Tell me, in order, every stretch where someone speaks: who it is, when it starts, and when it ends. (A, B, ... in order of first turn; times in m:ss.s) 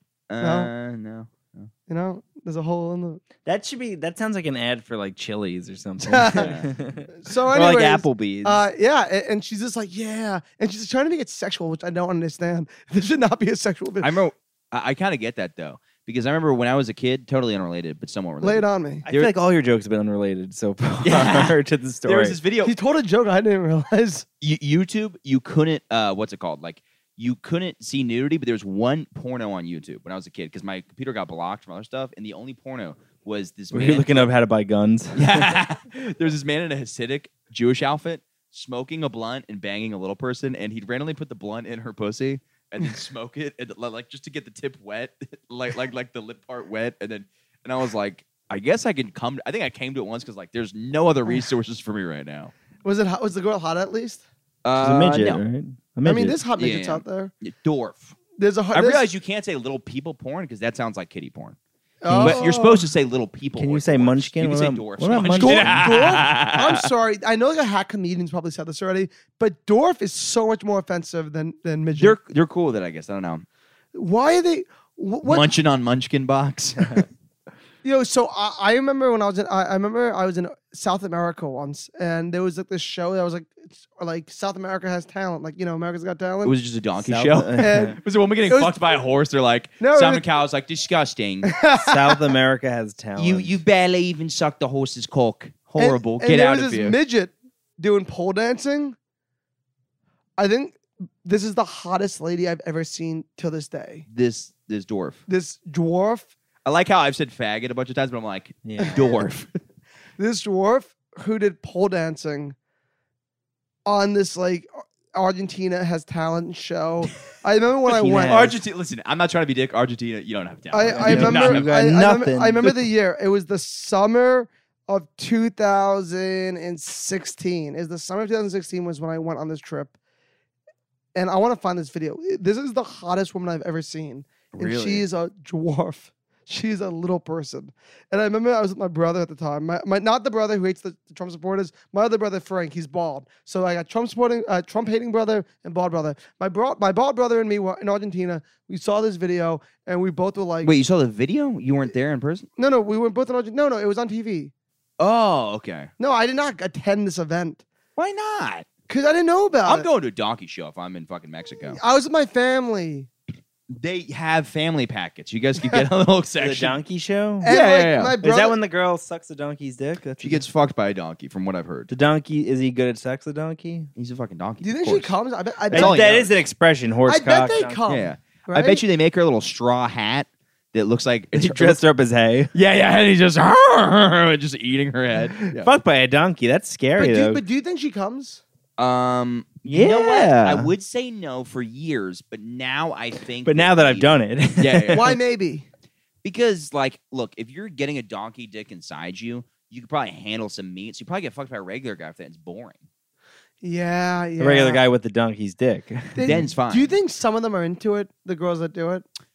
0:00.3-0:01.7 A
0:00.4-0:00.7 B
0:01.9-0:03.2 B
0:03.4-0:08.6 C
0:06.0-0:06.5 B
0:06.3-0:06.7 A
0:07.1-0:14.1 B
0:14.0-0:19.3 A
0:18.4-0:19.1 B
0:19.1-0:22.4 C
0:21.0-0:22.8 A
0:22.6-0:24.2 B
0:24.4-0:34.3 A
0:33.7-0:35.4 C
0:35.2-0:52.5 A
0:52.8-0:54.2 B
0:54.6-0:55.4 A
0:54.8-0:56.4 C
0:56.0-0:57.3 B
0:56.6-0:58.1 A
0:58.4-0:59.0 B
0:58.7-1:01.6 A
1:02.0-1:02.9 B
1:02.1-1:02.5 C
1:02.2-1:06.9 A
1:03.6-1:05.8 C
1:05.3-1:12.2 B
1:12.0-1:13.4 A
1:13.9-1:15.5 B
1:15.2-1:17.1 A
1:17.8-1:26.6 B
1:26.4-1:31.5 A
1:27.0-1:28.0 C
1:27.6-1:29.0 B
1:29.8-1:30.3 B
1:31.4-1:32.2 B
1:31.7-1:33.6 C
1:33.2-1:37.0 A
1:35.8-1:39.0 B
1:40.4-1:44.0 B
1:44.1-1:45.2 A
1:45.3-1:46.3 B
1:46.6-1:49.5 A
1:48.6-1:49.0 C
1:50.2-1:52.6 B
1:53.9-1:58.6 B
1:57.9-2:01.7 A
1:58.1-1:58.5 C
2:00.7-2:10.0 B
2:00.9-2:02.8 C
2:11.2-2:30.8 B
2:14.5-2:15.1 A
2:30.6-2:32.5 A
2:32.6-2:34.5 B
2:35.0-2:35.9 A
2:36.0-2:37.6 B
2:38.0-2:38.7 A
2:38.9-2:39.9 B
2:39.7-2:41.8 A
2:41.7-2:43.1 B
2:43.7-2:46.8 A
2:46.4-2:47.5 C
2:47.4-2:48.6 B
2:47.4-2:48.2 A
2:48.2-2:50.4 C
2:50.2-2:51.9 A
2:51.9-2:53.9 C
2:54.0-2:55.2 A
2:54.6-2:56.2 B
2:55.7-2:56.3 A
2:55.7-2:57.8 C
2:57.1-2:58.8 B
2:57.9-3:01.8 A
3:01.3-3:02.5 C
3:02.5-3:05.7 A
3:05.4-3:07.4 C
3:07.0-3:08.4 B
3:08.8-3:15.0 A
3:09.6-3:10.7 C
3:13.4-3:15.2 C
3:14.9-3:15.7 B
3:16.2-3:22.8 A
3:23.6-3:24.8 B
3:24.4-3:26.4 C
3:26.2-3:29.0 B
3:26.2-3:27.0 A